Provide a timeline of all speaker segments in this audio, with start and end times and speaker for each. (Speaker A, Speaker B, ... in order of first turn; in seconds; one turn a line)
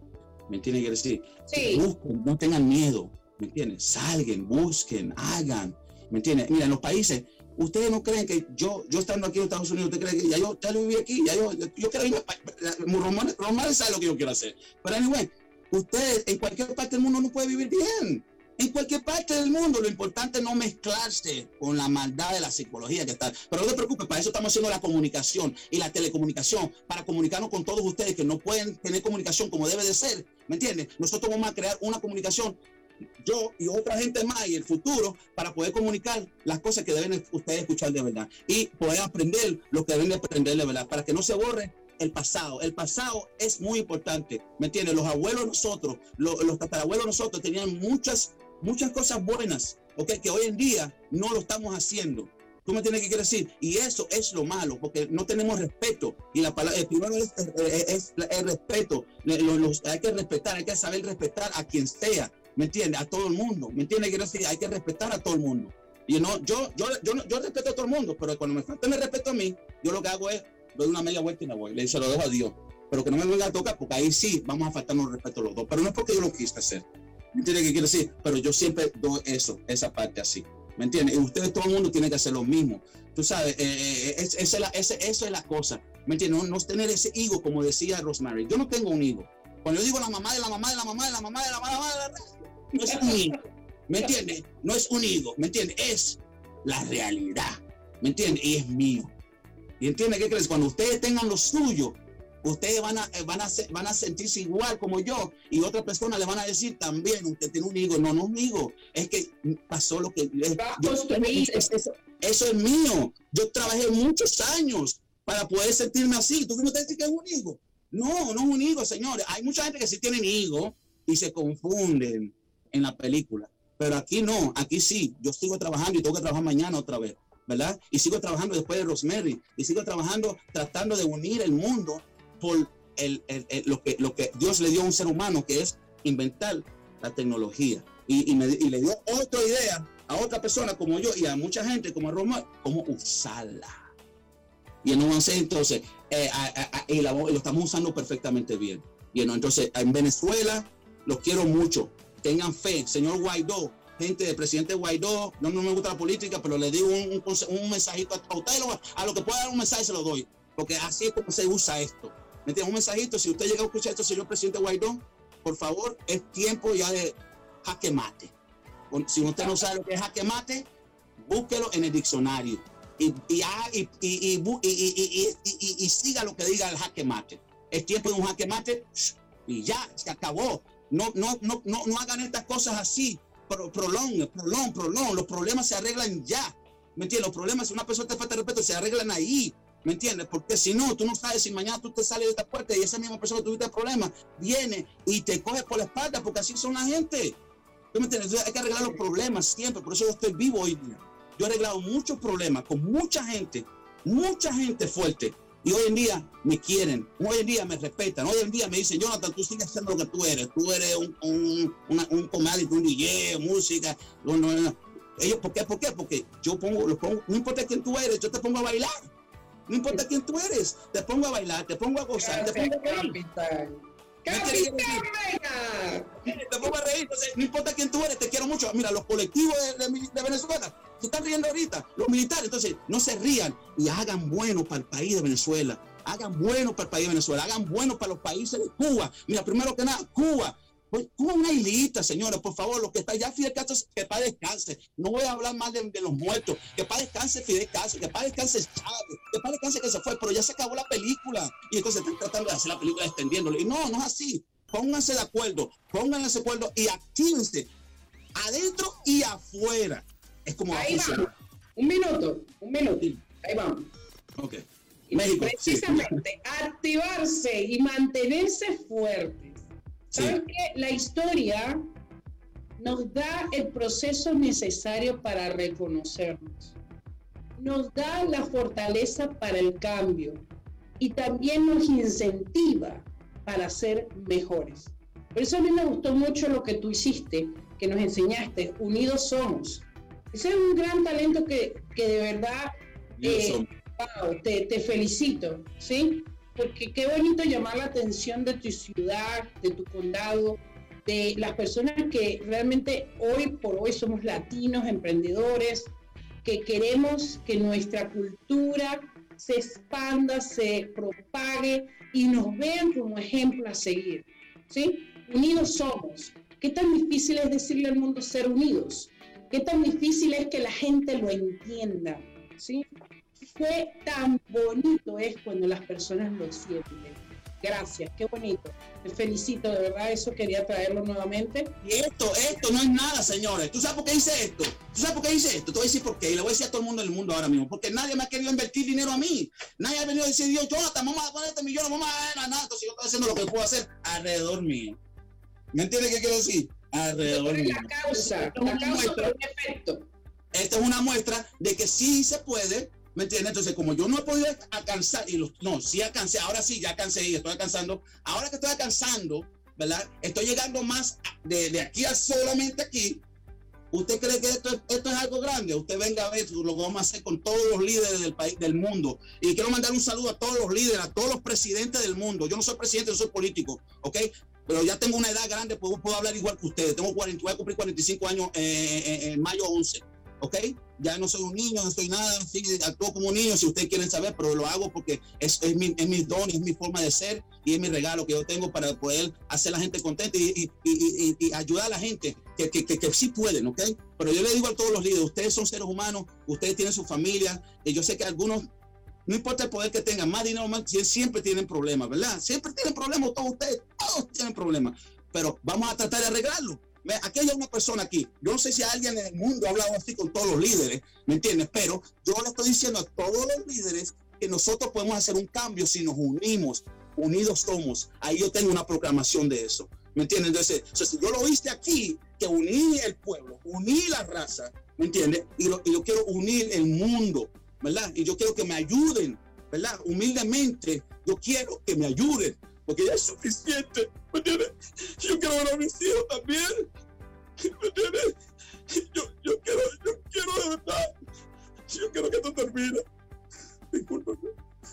Speaker A: 0.5-32.6
Speaker B: 1.5-1.9
Speaker A: 33.2-99.1
Speaker B: 92.9-93.2
Speaker A: 99.8-143.9
Speaker B: 110.6-111.7
Speaker A: 144.8-168.3
Speaker A: 168.9-170.7
Speaker B: 169.2-169.6
Speaker A: 171.2-197.4
Speaker A: 197.9-219.1
Speaker A: 219.7-223.2
Speaker B: 222.2-226.7
Speaker A: 224.3-225.1
Speaker A: 226.3-257.7
Speaker A: 258.4-261.2
Speaker B: 260.7-263.9
Speaker A: 264.4-266.1
Speaker B: 265.1-271.8
Speaker A: 270.1-270.4
Speaker B: 272.8-276.8
Speaker B: 277.6-280.4
Speaker B: 281.0-322.9
Speaker A: 293.2-293.7
Speaker B: 323.5-331.8
Speaker A: 331.8-345.0
Speaker A: 345.7-349.3
Speaker B: 347.2-350.1
Speaker A: 350.5-363.2
Speaker A: 363.9-398.7
Speaker A: 399.3-436.9
Speaker A: 437.6-438.4
Speaker A: 438.9-441.1
Speaker A: 441.9-443.0
Speaker A: 443.9-444.5